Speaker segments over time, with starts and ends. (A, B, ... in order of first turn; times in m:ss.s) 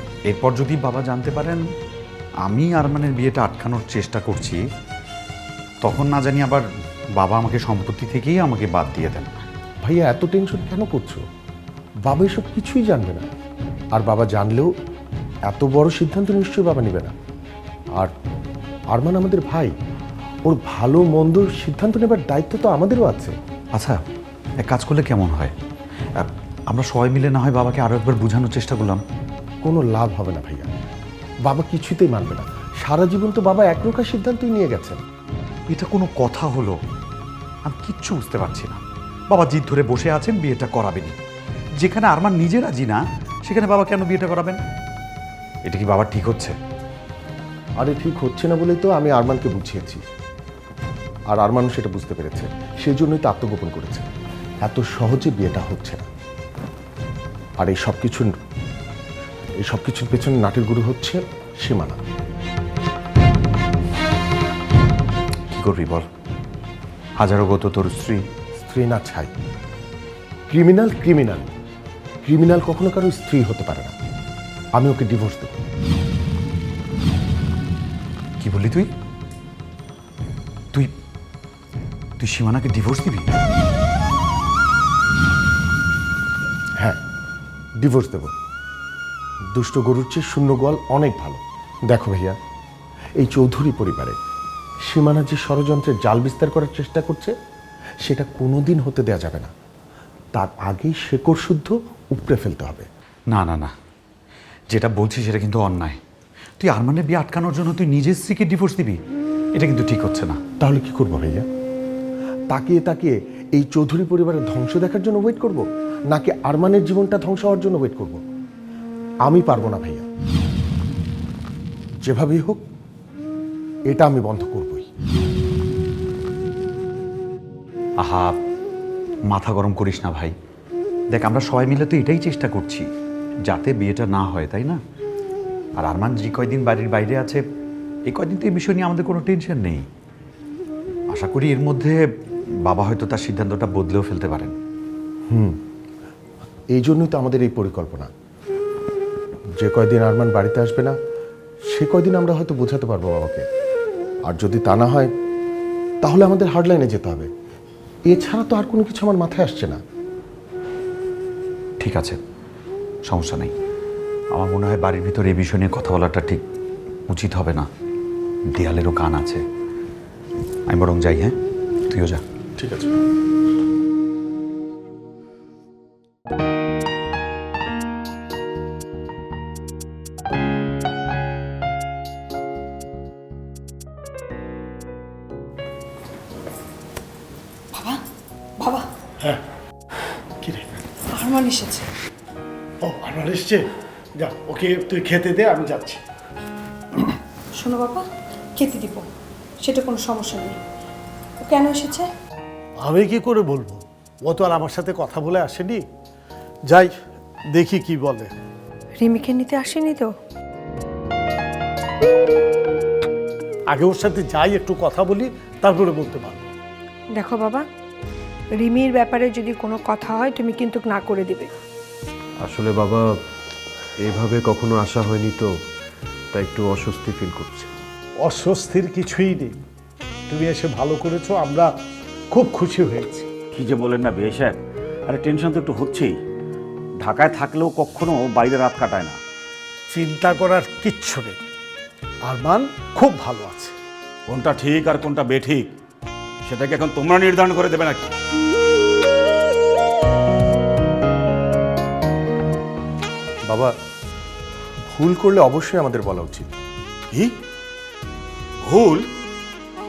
0:00.3-0:01.6 A
0:02.5-0:04.6 A
0:05.8-0:06.6 A
0:07.2-0:09.4 A
0:09.8-0:11.2 B
0:12.0-0:13.3 B
0:13.9-0:14.7 B
0:15.5-0:17.1 B
0:18.9-0:19.7 B
0:20.5-0:23.3 B
0:24.6-0:25.5 A
0:26.2-0:29.0 A
0:29.6-0:30.7 B
0:31.4-0:35.0 B
0:35.7-0:36.8 A
0:37.7-0:38.8 A
0:39.3-0:41.1 A
0:41.8-0:44.6 A
0:45.6-0:46.6 A
0:47.8-0:50.0 B
0:51.3-0:54.1 B
0:54.6-0:56.1 B
0:57.6-0:58.4 B
0:59.6-1:02.0 B
1:05.5-1:06.0 A
1:07.2-1:08.2 A
1:08.6-1:09.3 B
1:10.5-1:11.5 B
1:12.2-1:13.9 B
1:14.8-1:15.6 B
1:18.4-1:18.9 A
1:22.2-1:23.3 A
1:27.8-1:28.3 B
1:29.6-1:32.4 B
1:33.2-1:34.2 B
1:34.9-1:37.3 B
1:38.0-1:39.5 B
1:40.3-1:42.9 B
1:43.3-1:43.7 A
1:44.7-1:46.0 A
1:46.6-1:49.0 A
1:49.6-1:50.4 A
1:50.6-1:51.4 B
1:52.5-1:58.2 B
1:59.3-2:00.1 B
2:02.0-2:02.6 B
2:03.9-2:04.9 B
2:08.0-2:08.4 A
2:09.3-2:10.3 A
2:11.1-2:12.8 A
2:13.5-2:14.8 A
2:15.8-2:17.4 A
2:18.1-2:19.8 A
2:21.1-2:22.0 A
2:22.7-2:24.5 A
2:25.3-2:25.6 B
2:26.7-2:28.1 B
2:29.6-2:31.0 B
2:31.7-2:33.4 B
2:34.3-2:35.1 B
2:36.0-2:37.3 B
2:38.1-2:39.8 B
2:41.8-2:42.2 A
2:43.1-2:43.5 A
2:44.3-2:46.4 A
2:47.1-2:47.7 A
2:48.6-2:49.4 A
2:50.7-2:51.3 A
2:51.9-2:52.2 A
2:52.6-2:53.0 B
3:08.6-3:08.8 C
3:10.4-3:10.7 D
3:11.2-3:11.8 C
3:12.8-3:13.6 D
3:14.2-3:16.0 D
3:17.6-3:18.0 C
3:18.6-3:19.0 C
3:19.6-3:20.6 C
3:21.4-3:22.1 C
3:22.8-3:25.8 D
3:27.5-3:28.3 D
3:29.0-3:30.1 C
3:33.7-3:36.5 D
3:37.1-3:37.6 C
3:38.6-3:41.5 C
3:42.4-3:43.1 E
3:44.0-3:45.5 E
3:46.3-3:47.7 E
3:48.2-3:49.6 D
3:50.3-3:51.7 D
3:52.3-3:53.3 D
3:53.5-3:56.2 F
3:57.0-3:59.2 F
3:59.9-4:01.4 D
4:02.3-4:03.7 D
4:04.3-4:05.7 F
4:06.4-4:08.1 F
4:14.9-4:16.5 B
4:18.6-4:19.0 F